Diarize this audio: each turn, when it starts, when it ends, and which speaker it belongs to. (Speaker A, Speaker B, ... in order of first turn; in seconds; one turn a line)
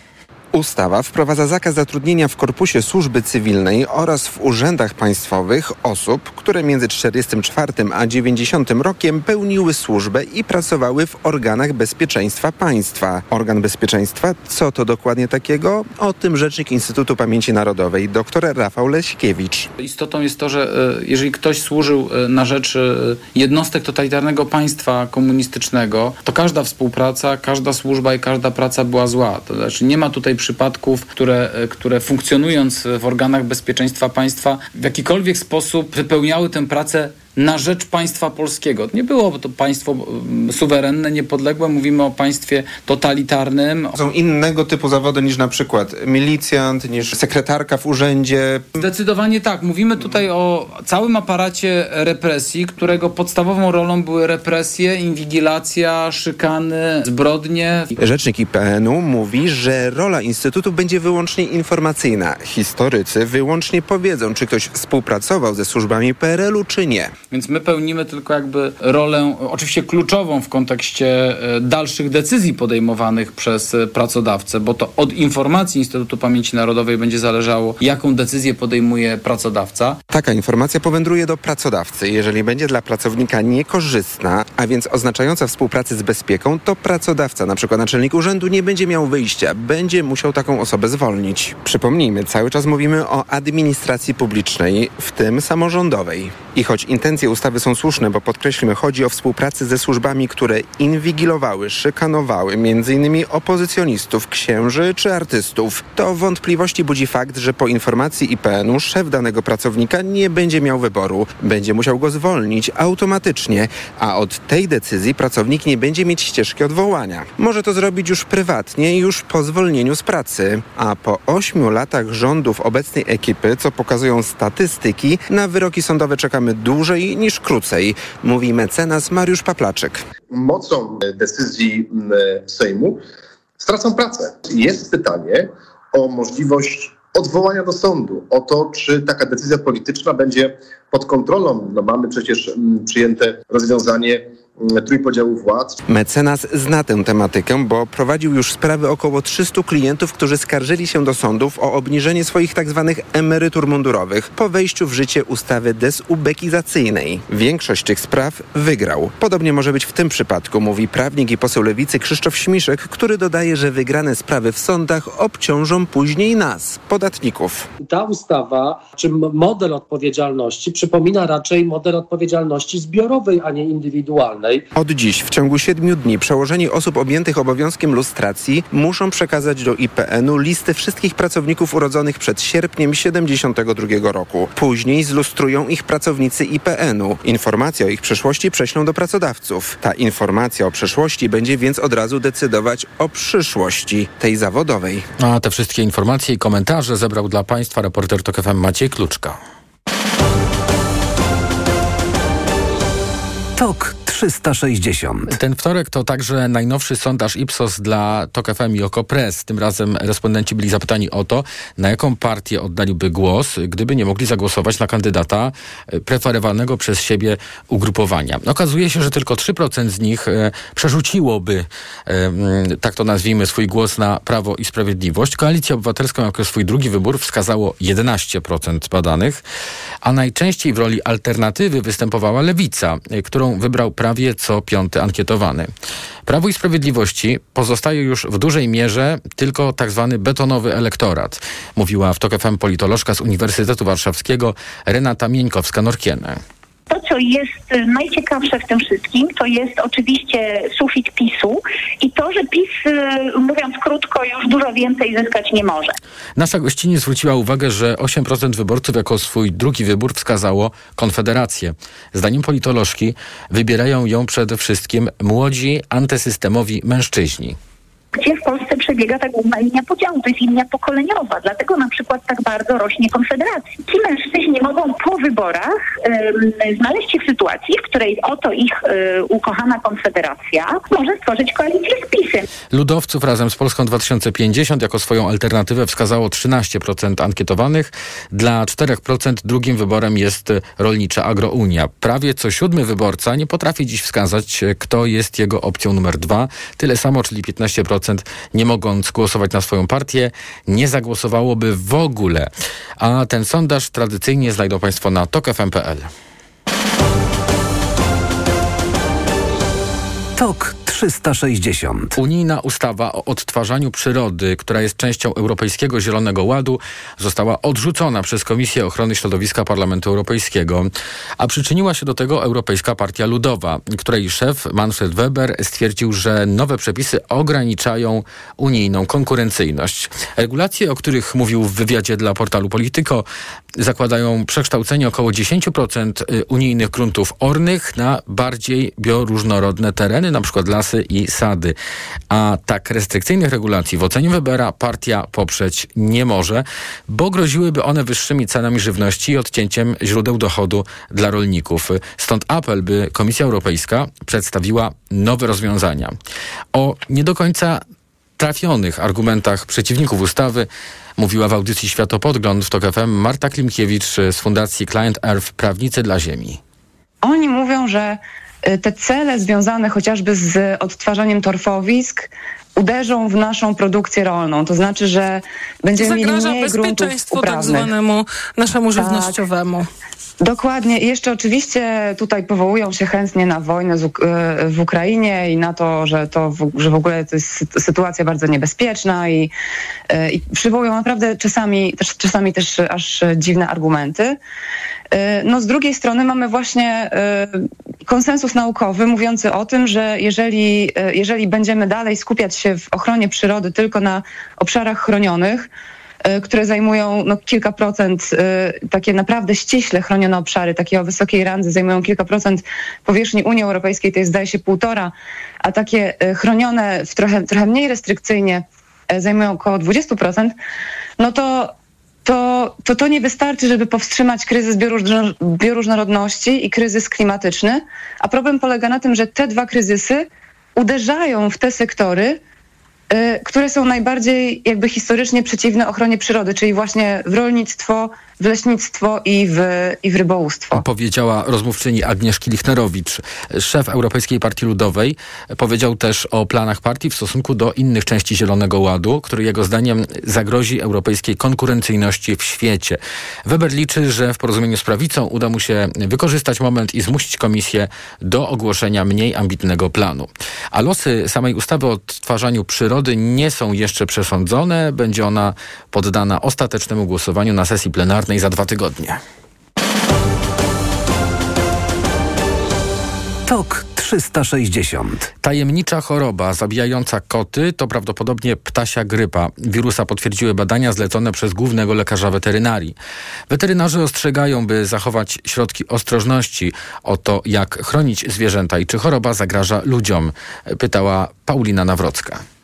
Speaker A: 0.5-19.7
Speaker B: 19.8-44.0
Speaker A: 44.0-48.7
Speaker B: 48.8-57.9
Speaker A: 58.0-67.1
Speaker B: 67.3-80.0
Speaker A: 80.1-130.1
Speaker C: 130.3-133.0
Speaker C: 133.6-145.8
Speaker A: 145.9-167.7
Speaker D: 167.8-174.7
Speaker A: 174.7-195.1
Speaker E: 195.2-199.4
Speaker F: 203.6-205.3
Speaker E: 205.3-229.4
Speaker E: 230.0-235.7
Speaker E: 236.2-246.4
Speaker G: 246.9-255.9
Speaker E: 256.4-267.6
Speaker G: 268.1-282.4
Speaker E: 282.7-306.1
Speaker F: 310.4-312.2
Speaker E: 312.2-333.2
Speaker E: 333.8-341.7
Speaker E: 342.3-356.1
Speaker E: 356.7-357.8
Speaker E: 358.4-366.6
Speaker H: 367.2-377.9
Speaker I: 375.9-379.9
Speaker H: 378.9-379.4
Speaker H: 380.4-389.5
Speaker H: 390.1-394.4
Speaker H: 395.1-405.7
Speaker H: 406.2-420.5
Speaker H: 421.2-421.7
Speaker H: 422.2-432.4
Speaker H: 433.1-440.8
Speaker E: 440.7-469.2
Speaker F: 473.4-475.3
Speaker E: 475.4-482.9
Speaker E: 483.5-492.4